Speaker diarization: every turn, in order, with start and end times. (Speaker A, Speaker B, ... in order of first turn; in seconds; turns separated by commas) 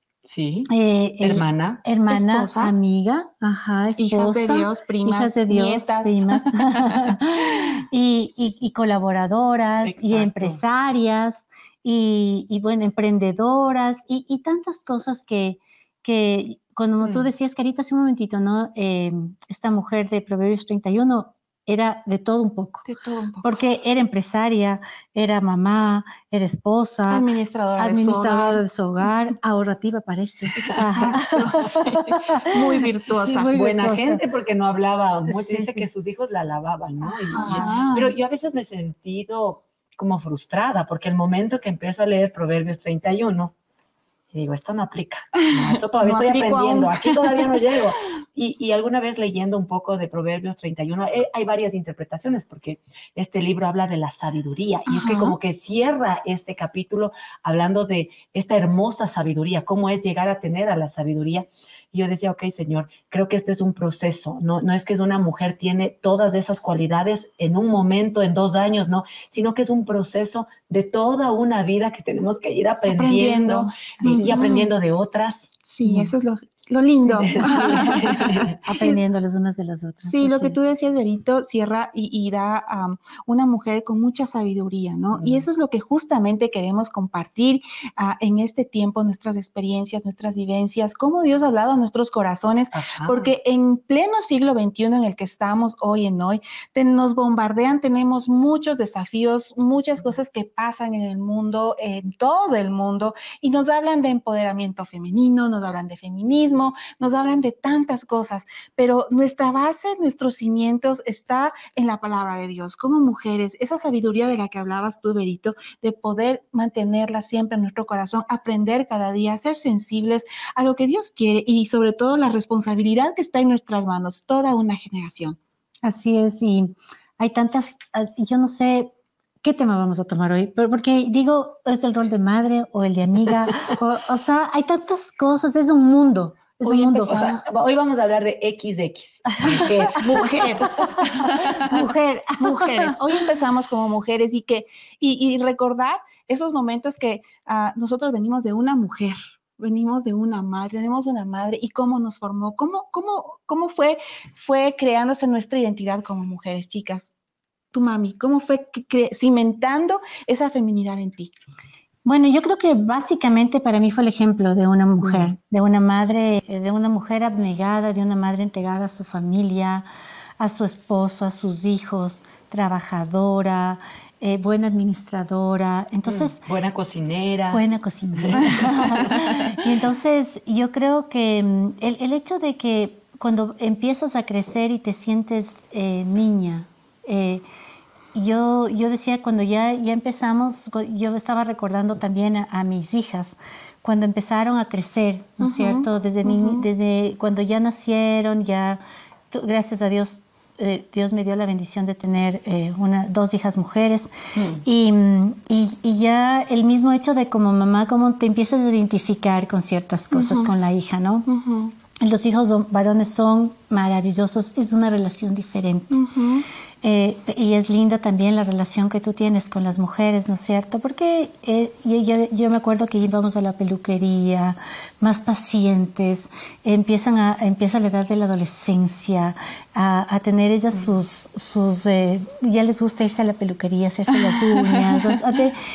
Speaker A: 0.2-1.8, Speaker B: 0.7-22.9, Speaker C: 2.1-2.7, Speaker C: 4.0-7.2, Speaker A: 9.8-10.6, Speaker A: 17.0-17.3, Speaker C: 22.9-23.5, Speaker B: 23.4-27.2, Speaker C: 27.1-28.6, Speaker B: 27.8-32.6, Speaker C: 30.6-33.5, Speaker B: 33.2-34.2, Speaker A: 33.5-43.5, Speaker B: 35.3-35.8, Speaker B: 37.2-37.7, Speaker C: 37.3-38.1, Speaker A: 44.3-75.5, Speaker C: 45.4-47.6, Speaker C: 54.9-55.3, Speaker C: 72.9-74.7, Speaker C: 75.6-79.0, Speaker A: 77.0-78.6, Speaker B: 78.6-80.6, Speaker C: 80.0-125.4, Speaker A: 85.1-85.4, Speaker A: 92.7-93.3, Speaker B: 125.8-137.4, Speaker A: 136.6-141.0, Speaker C: 137.1-137.3, Speaker C: 140.0-157.2, Speaker B: 141.4-142.9, Speaker C: 157.7-161.3, Speaker B: 162.0-169.8, Speaker B: 170.4-176.4, Speaker A: 176.1-179.4, Speaker B: 177.5-187.4, Speaker B: 188.1-211.3, Speaker C: 195.4-196.6, Speaker C: 210.1-210.5, Speaker C: 211.3-211.7, Speaker B: 212.0-216.0, Speaker C: 215.9-216.4, Speaker B: 216.8-235.6